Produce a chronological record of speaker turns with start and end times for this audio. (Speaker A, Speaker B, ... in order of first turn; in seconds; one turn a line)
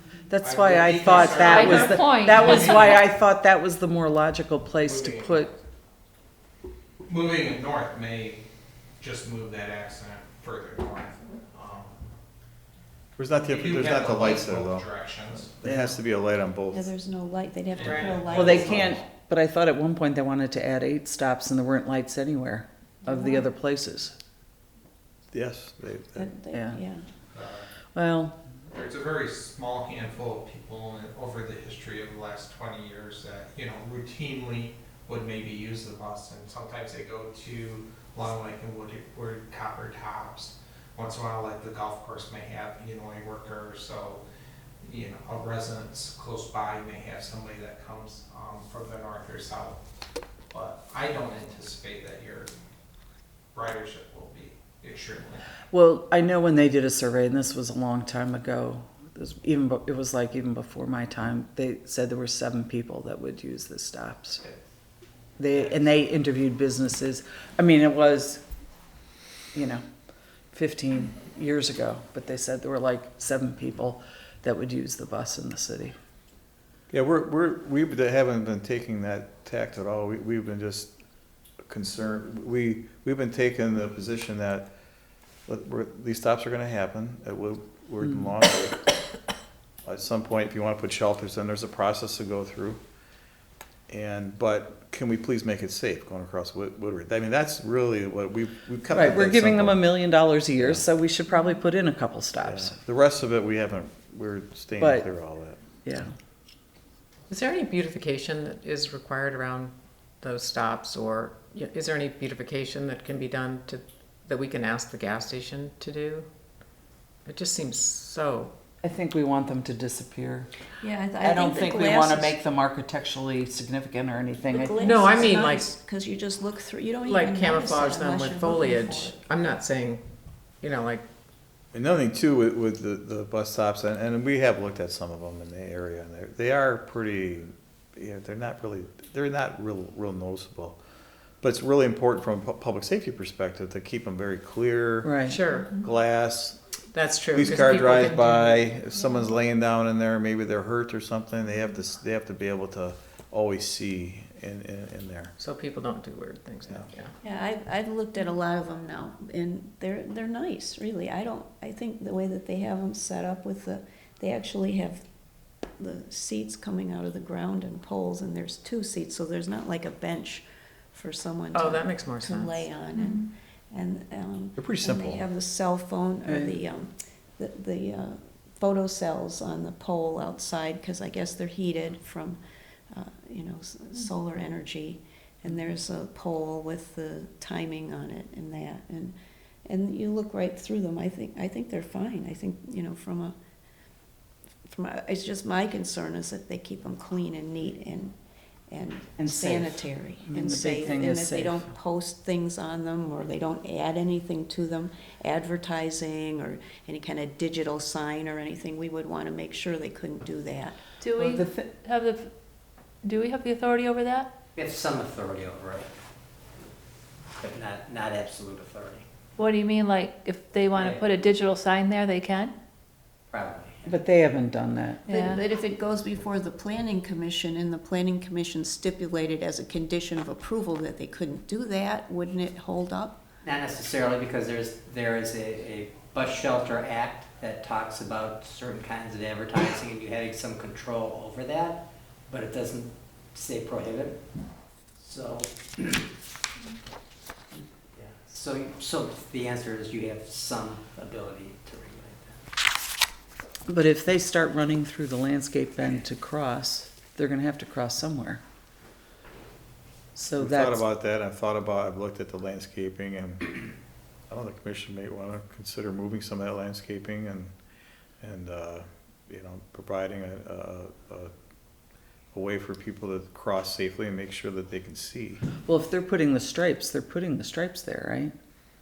Speaker A: 0.3-5.5
Speaker B: 0.4-3.0
Speaker C: 1.4-2.8
Speaker B: 4.8-5.4
Speaker B: 7.1-8.4
Speaker B: 9.0-12.0
Speaker D: 13.2-14.9
Speaker B: 13.4-15.6
Speaker D: 15.6-16.9
Speaker A: 15.7-15.9
Speaker E: 16.7-18.9
Speaker B: 17.7-19.1
Speaker F: 17.8-18.2
Speaker A: 18.3-24.1
Speaker E: 23.1-23.4
Speaker D: 25.3-26.3
Speaker E: 26.1-27.1
Speaker A: 26.5-26.8
Speaker B: 27.3-27.7
Speaker A: 27.9-28.3
Speaker B: 28.7-44.2
Speaker B: 44.8-49.8
Speaker B: 50.5-52.5
Speaker B: 53.5-55.5
Speaker A: 55.7-64.4
Speaker A: 65.4-68.4
Speaker A: 69.5-69.8
Speaker A: 70.5-76.0
Speaker D: 76.9-80.9
Speaker D: 81.7-84.7
Speaker D: 85.5-88.8
Speaker A: 88.0-88.3
Speaker D: 89.8-92.8
Speaker D: 93.9-100.0
Speaker A: 98.9-102.8
Speaker D: 100.6-100.9
Speaker D: 102.5-105.6
Speaker A: 104.8-105.1
Speaker A: 105.8-106.1
Speaker F: 107.3-116.3
Speaker F: 117.3-118.5
Speaker A: 118.8-120.5
Speaker E: 120.8-122.4
Speaker A: 121.2-125.2
Speaker E: 124.5-129.2
Speaker F: 124.8-125.7
Speaker F: 127.0-130.0
Speaker F: 130.6-131.0
Speaker D: 131.7-140.8
Speaker D: 141.4-145.1
Speaker A: 145.0-145.4
Speaker F: 145.3-145.7
Speaker D: 145.7-146.6
Speaker F: 146.9-148.6
Speaker D: 147.3-155.3
Speaker F: 155.4-157.1
Speaker E: 157.2-165.0
Speaker E: 165.8-182.4
Speaker F: 171.5-172.7
Speaker C: 172.9-173.2
Speaker D: 174.6-175.2
Speaker A: 176.3-176.6
Speaker E: 182.9-189.2
Speaker E: 189.7-193.3
Speaker E: 194.7-198.2
Speaker E: 198.7-210.8
Speaker A: 199.2-201.7
Speaker C: 211.0-212.3
Speaker A: 211.2-211.6
Speaker C: 213.0-214.3
Speaker G: 214.6-215.9
Speaker G: 217.4-219.1
Speaker C: 219.4-222.5
Speaker G: 220.8-221.0
Speaker G: 223.3-223.9
Speaker A: 223.8-225.1
Speaker C: 225.1-225.4
Speaker E: 225.1-233.2
Speaker G: 233.4-244.2
Speaker G: 245.0-246.1
Speaker G: 248.0-252.4
Speaker A: 253.7-258.4
Speaker A: 260.2-260.8
Speaker D: 260.4-263.6
Speaker D: 264.3-267.5
Speaker D: 268.2-271.3
Speaker D: 272.3-275.4
Speaker A: 275.6-278.3